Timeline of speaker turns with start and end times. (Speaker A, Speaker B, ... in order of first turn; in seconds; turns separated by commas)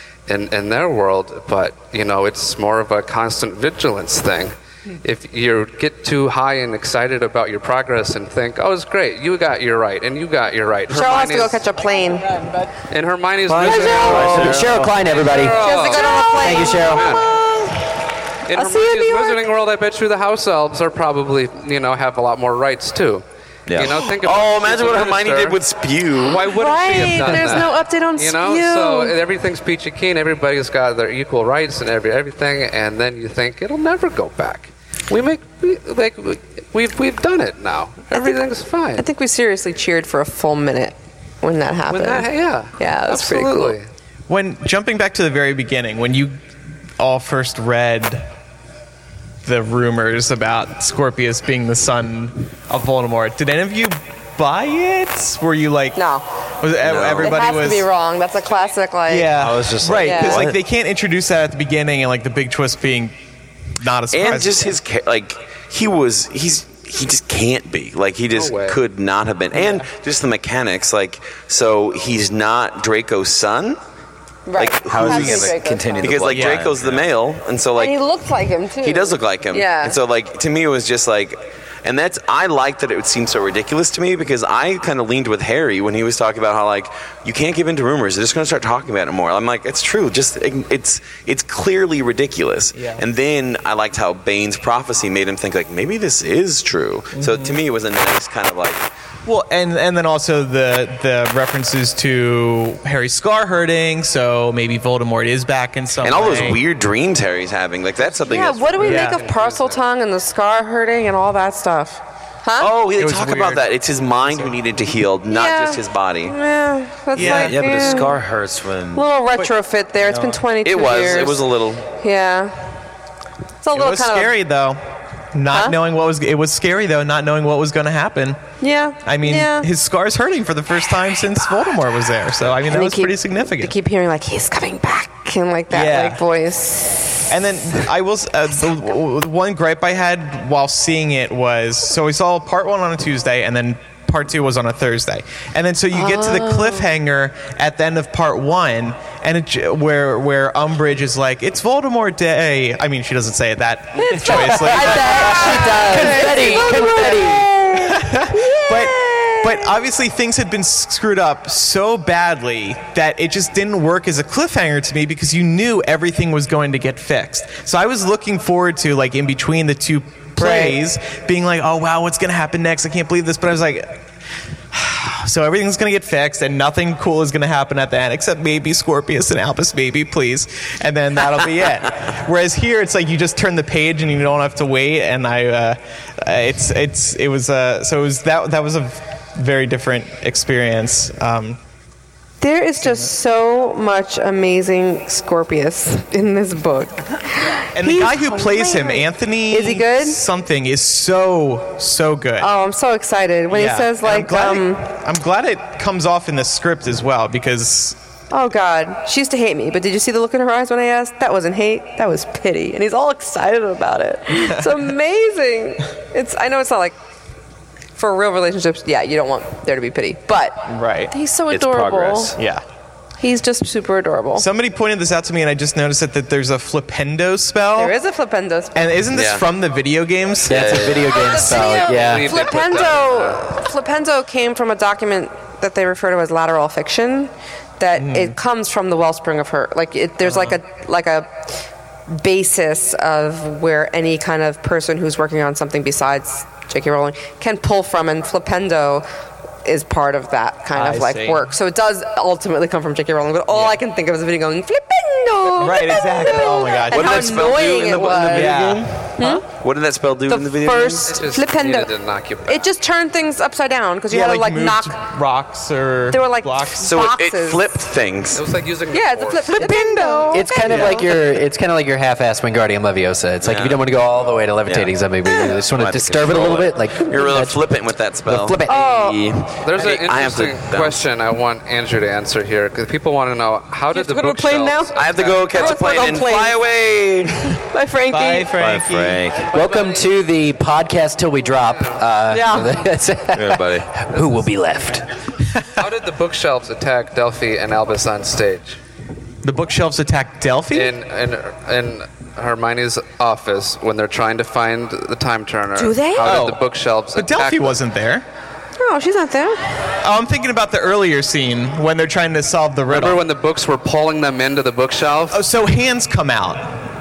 Speaker A: 0.3-11.6, Speaker B: 10.9-12.4, Speaker A: 12.9-17.4, Speaker C: 13.5-15.6, Speaker D: 13.6-15.0, Speaker B: 13.7-14.3, Speaker B: 15.5-17.9, Speaker C: 16.3-17.2, Speaker A: 18.5-25.6, Speaker B: 18.5-19.4, Speaker D: 23.7-24.0, Speaker E: 24.0-26.5, Speaker A: 26.2-39.0, Speaker B: 26.3-29.1, Speaker B: 39.0-43.8, Speaker A: 41.9-43.9, Speaker F: 44.3-46.4, Speaker F: 47.0-48.3, Speaker F: 49.4-56.0, Speaker B: 56.0-56.2, Speaker F: 56.6-57.9, Speaker D: 56.8-57.3, Speaker B: 57.2-59.4, Speaker F: 59.1-63.1, Speaker D: 59.4-60.5, Speaker B: 60.0-60.5, Speaker F: 63.8-64.8, Speaker E: 64.1-73.8, Speaker A: 68.3-68.8, Speaker B: 74.5-76.3, Speaker E: 74.6-78.0, Speaker D: 74.9-77.1, Speaker F: 76.3-76.7, Speaker B: 77.7-80.0, Speaker E: 78.8-98.9, Speaker F: 92.7-93.0, Speaker F: 97.2-97.6, Speaker F: 99.2-106.6, Speaker E: 106.0-108.9, Speaker B: 108.2-112.7, Speaker A: 108.7-109.8, Speaker F: 108.8-109.2, Speaker E: 112.6-116.3, Speaker F: 113.0-113.6, Speaker B: 115.3-118.2, Speaker F: 117.1-117.9, Speaker D: 117.2-119.0, Speaker B: 118.9-122.6, Speaker F: 119.3-120.4, Speaker E: 120.6-121.9, Speaker B: 123.6-124.3, Speaker F: 123.7-124.8, Speaker F: 125.3-128.4, Speaker B: 128.6-129.7, Speaker F: 129.0-133.7, Speaker B: 132.7-137.2, Speaker F: 135.7-136.2, Speaker F: 137.3-156.7, Speaker B: 145.9-146.8, Speaker B: 154.0-159.6, Speaker C: 154.2-157.5, Speaker F: 157.7-174.0, Speaker B: 170.4-170.8, Speaker F: 174.7-191.6, Speaker B: 192.4-200.2, Speaker F: 192.8-193.1, Speaker F: 197.7-202.5, Speaker B: 202.4-204.9, Speaker F: 203.5-208.0, Speaker B: 208.3-216.9, Speaker F: 214.3-214.9, Speaker B: 217.9-222.3, Speaker F: 220.7-221.1, Speaker D: 221.5-222.4, Speaker F: 222.3-222.6, Speaker B: 223.2-224.4, Speaker F: 224.3-227.9, Speaker B: 227.8-228.9, Speaker F: 228.7-231.0, Speaker D: 229.1-229.4, Speaker C: 230.4-232.3, Speaker A: 230.5-233.4, Speaker B: 231.1-241.5, Speaker F: 237.9-238.4, Speaker F: 240.2-240.6, Speaker B: 242.1-249.1, Speaker B: 249.6-258.6, Speaker F: 250.7-251.4, Speaker F: 253.5-253.8, Speaker F: 255.6-259.4, Speaker E: 256.9-261.2, Speaker B: 259.2-259.4, Speaker B: 260.3-261.9, Speaker A: 261.0-262.6, Speaker B: 262.4-265.0, Speaker F: 264.1-266.8, Speaker B: 266.1-267.7, Speaker E: 266.8-268.4, Speaker A: 268.3-269.7, Speaker B: 268.9-271.1, Speaker F: 269.6-271.0, Speaker C: 270.3-277.6, Speaker E: 273.4-273.8, Speaker E: 274.6-274.9, Speaker D: 275.8-276.3, Speaker E: 276.1-281.0, Speaker C: 278.2-278.7, Speaker B: 278.6-279.3, Speaker A: 279.6-285.4, Speaker B: 283.9-285.0, Speaker E: 284.9-287.6, Speaker B: 285.5-286.6, Speaker B: 287.6-288.5, Speaker F: 288.1-289.4, Speaker D: 288.5-289.5, Speaker C: 289.4-295.1, Speaker B: 292.3-292.8, Speaker D: 293.3-293.9, Speaker A: 295.8-298.8, Speaker F: 299.4-300.9, Speaker A: 300.7-307.8, Speaker B: 305.7-306.4, Speaker F: 306.2-306.6, Speaker F: 307.1-308.2, Speaker B: 308.8-309.6, Speaker F: 310.0-313.2, Speaker A: 312.9-315.4, Speaker F: 315.3-316.8